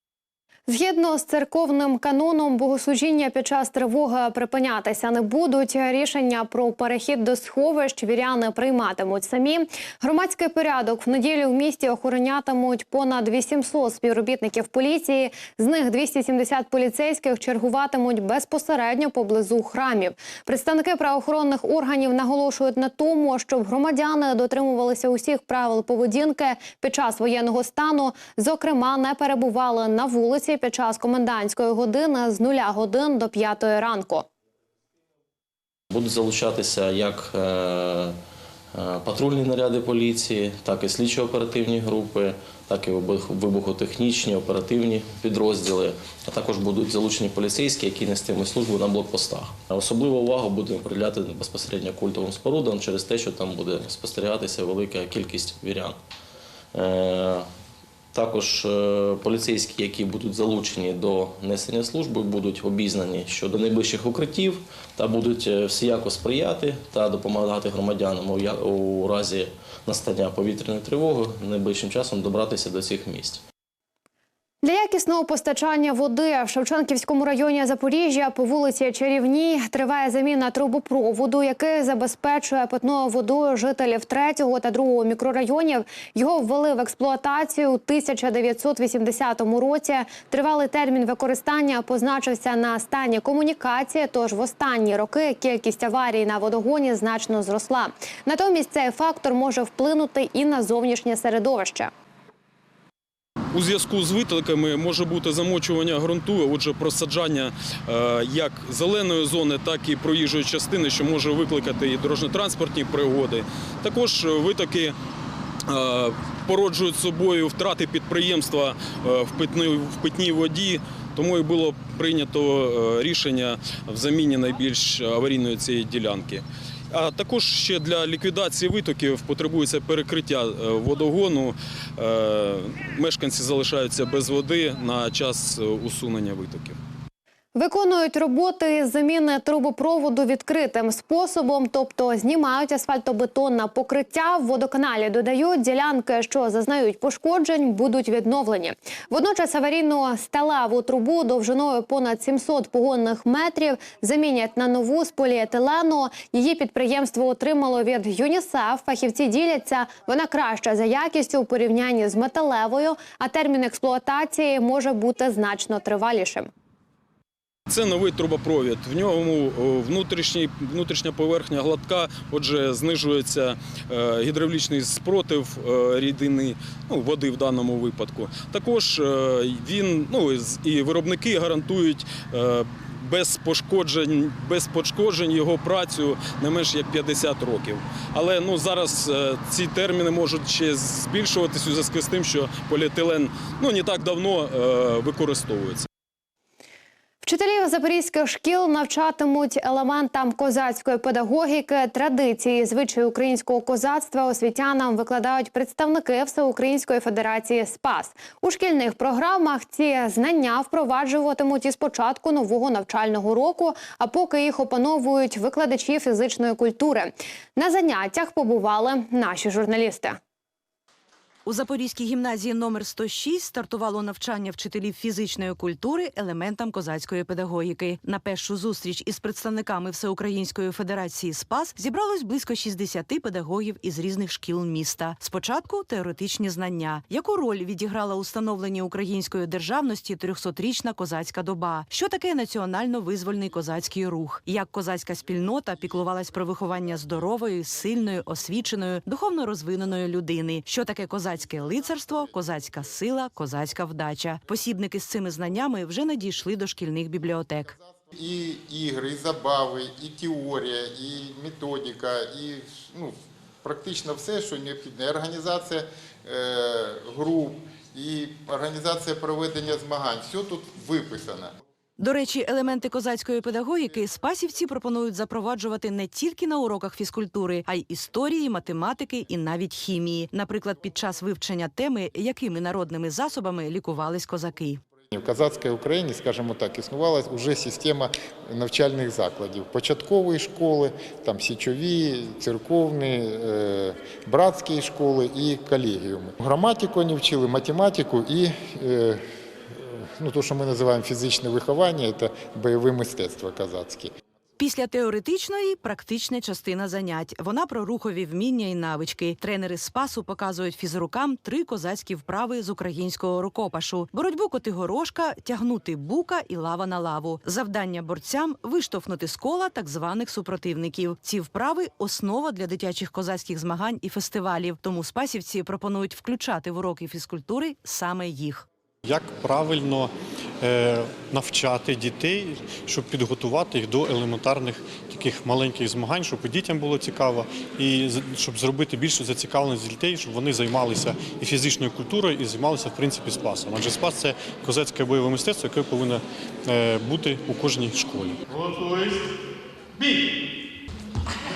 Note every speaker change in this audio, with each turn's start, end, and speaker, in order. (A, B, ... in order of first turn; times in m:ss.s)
0:00.7-0:34.2 A
0:35.9-0:38.2 B
0:38.7-0:56.0 B
0:56.7-0:57.5 B
0:58.1-1:13.4 B
1:14.6-1:41.9 A
1:43.5-1:54.9 C
1:55.7-2:16.8 C
2:17.5-2:46.5 A
2:47.7-3:15.9 C
3:17.2-3:40.2 A
3:41.4-4:17.8 D
4:17.9-4:31.6 E
4:32.0-4:44.8 D
4:45.1-5:04.1 E
5:04.6-5:28.7 D
5:29.0-5:48.4 F